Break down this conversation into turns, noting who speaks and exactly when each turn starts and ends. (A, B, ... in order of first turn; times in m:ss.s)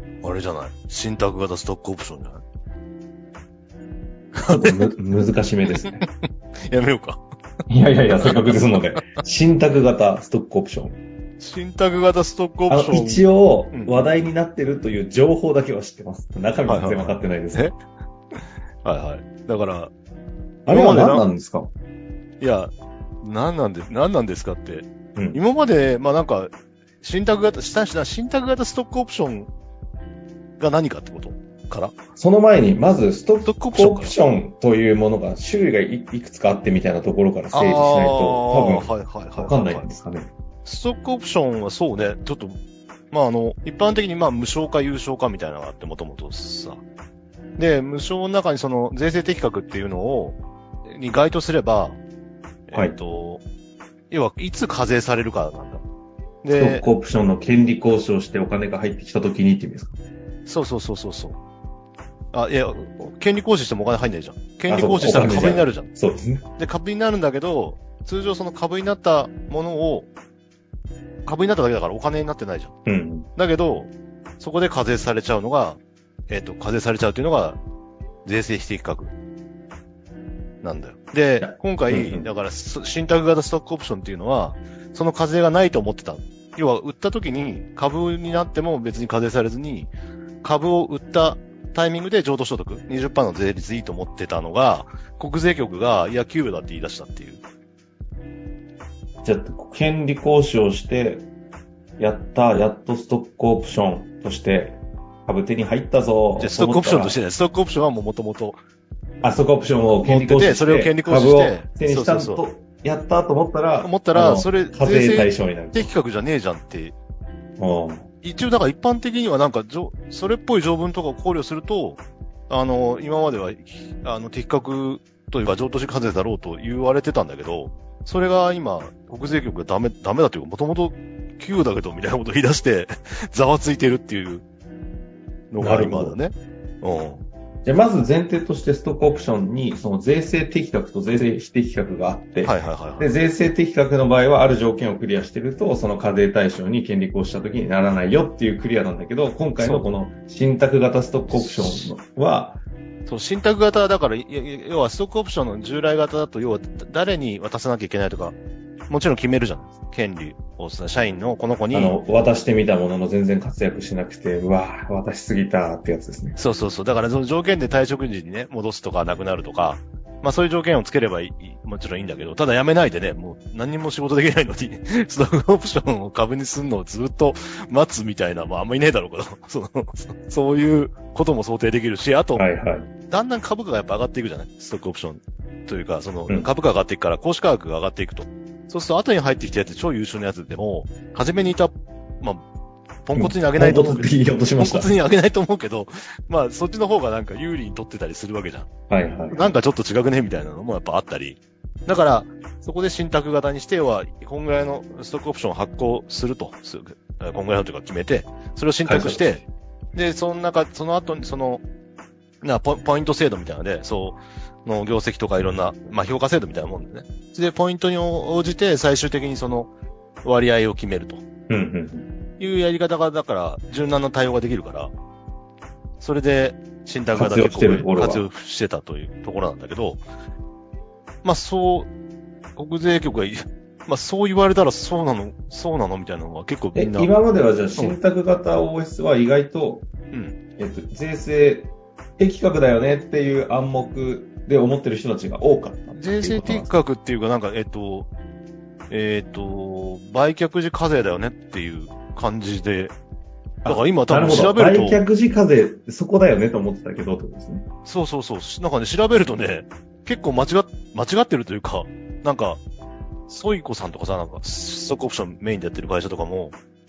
0:00.2-0:02.4 A
0:04.4-0:04.9 A
0:04.5-0:06.0 B
0:06.7-0:07.2 A
0:07.7-0:11.0 B
0:08.2-0:09.0 A
0:11.4-0:14.2 A
0:12.7-0:17.8 B
0:16.6-0:17.8 A
0:18.4-0:19.9 A
0:20.7-0:21.3 A
0:20.7-0:21.7 B
0:22.4-0:29.5 A
0:25.2-0:25.4 B
0:30.6-0:32.0 A
0:32.2-0:40.3 B
0:33.4-0:34.2 A
0:37.5-0:39.9 A
0:40.6-0:42.6 A
0:43.1-0:46.8 A
0:47.6-0:52.0 A
0:52.7-0:53.4 A
0:54.1-0:55.8 A
0:56.4-0:56.8 A
0:56.6-1:00.0 B
1:00.5-1:01.4 A
1:02.3-1:05.9 A
1:04.7-1:06.4 B
1:06.6-1:10.1 A
1:11.2-1:12.8 A
1:12.9-1:13.3 B
1:13.4-1:17.6 A
1:18.2-1:19.1 A
1:20.6-1:37.4 A
1:21.4-1:22.3 B
1:39.2-1:41.3 B
1:42.0-1:47.2 B
1:46.4-1:48.6 A
1:49.2-1:55.9 B
1:50.0-1:52.4 A
1:53.8-1:57.0 A
1:57.6-1:58.1 B
1:58.2-2:14.4 A
2:15.5-2:17.2 A
2:15.6-2:16.2 B
2:17.6-2:32.6 B
2:22.4-2:23.1 A
2:29.6-2:29.9 A
2:31.3-2:31.9 A
2:33.1-2:38.4 A
2:38.9-2:42.0 A
2:41.7-2:46.4 B
2:46.4-3:02.4 A
3:02.3-3:02.9 B
3:03.1-3:12.4 A
3:13.1-3:18.7 A
3:13.2-3:14.9 B
3:18.9-3:19.5 B
3:19.3-3:31.6 A
3:28.8-3:29.5 B
3:32.4-3:39.7 A
3:40.2-3:41.2 A
3:41.5-3:42.1 B
3:42.4-3:44.9 A
3:46.0-3:50.0 A
3:47.1-3:48.3 B
3:51.2-3:51.9 A
3:52.6-3:57.1 A
3:56.7-3:59.9 B
4:00.1-4:00.4 A
4:00.6-4:06.7 B
4:06.0-4:08.1 A
4:08.9-4:13.0 A
4:13.6-4:17.7 B
4:13.7-4:15.0 A
4:17.9-4:22.6 A
4:23.3-4:26.6 A